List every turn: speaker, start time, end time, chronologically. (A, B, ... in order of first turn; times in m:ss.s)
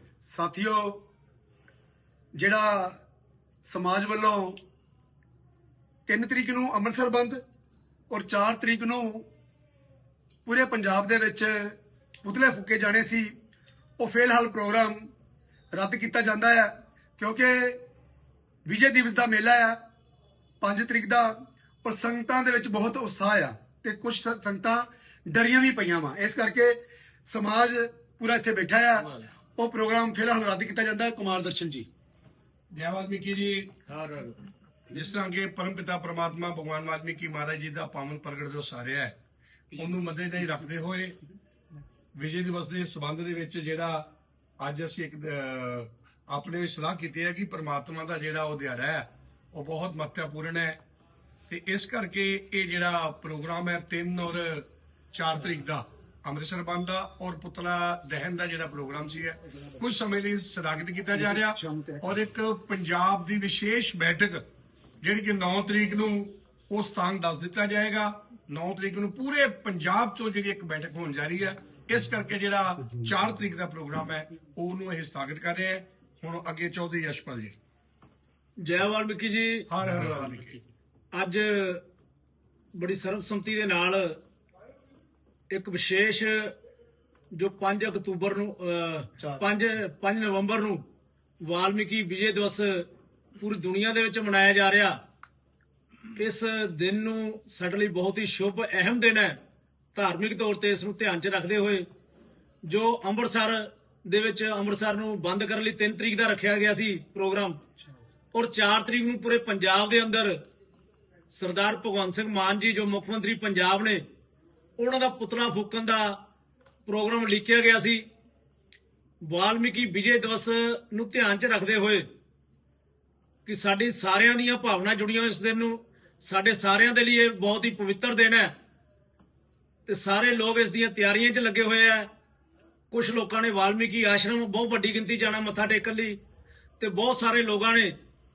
0:00.2-0:01.0 A
0:02.4-0:03.0 A
0:03.7-0:04.6 A
0:06.1-0:07.4 A
0:08.1-0:09.3 A
0:10.5-0:13.3 A
0:14.0-0:15.1 A
0:15.7-0:17.8 A
0:18.7-0:19.8 A
0:20.6-0:31.9 A
0:32.7-0:33.8 B
0:34.9-0:39.2 B
0:39.8-0:41.2 B
0:42.2-0:44.1 B
0:44.6-0:50.8 B
0:51.5-1:04.4 B
1:01.2-1:02.0 A
1:05.0-1:17.5 B
1:18.6-1:19.7 C
1:19.7-1:20.6 B
1:21.2-1:21.8 C
1:22.8-1:24.2 C
1:25.5-1:26.5 C
1:27.3-1:30.8 C
1:31.4-1:32.9 C
1:33.4-1:35.0 C
1:36.2-1:39.4 C
1:40.0-1:41.9 C
1:42.7-1:47.6 C
1:48.3-1:50.4 C
1:51.3-1:54.0 C
1:54.8-1:56.2 C
1:56.9-1:58.0 C
1:59.2-2:02.0 C
2:03.5-2:08.5 C
2:09.9-2:12.1 C
2:12.9-2:16.2 C
2:16.8-2:17.9 C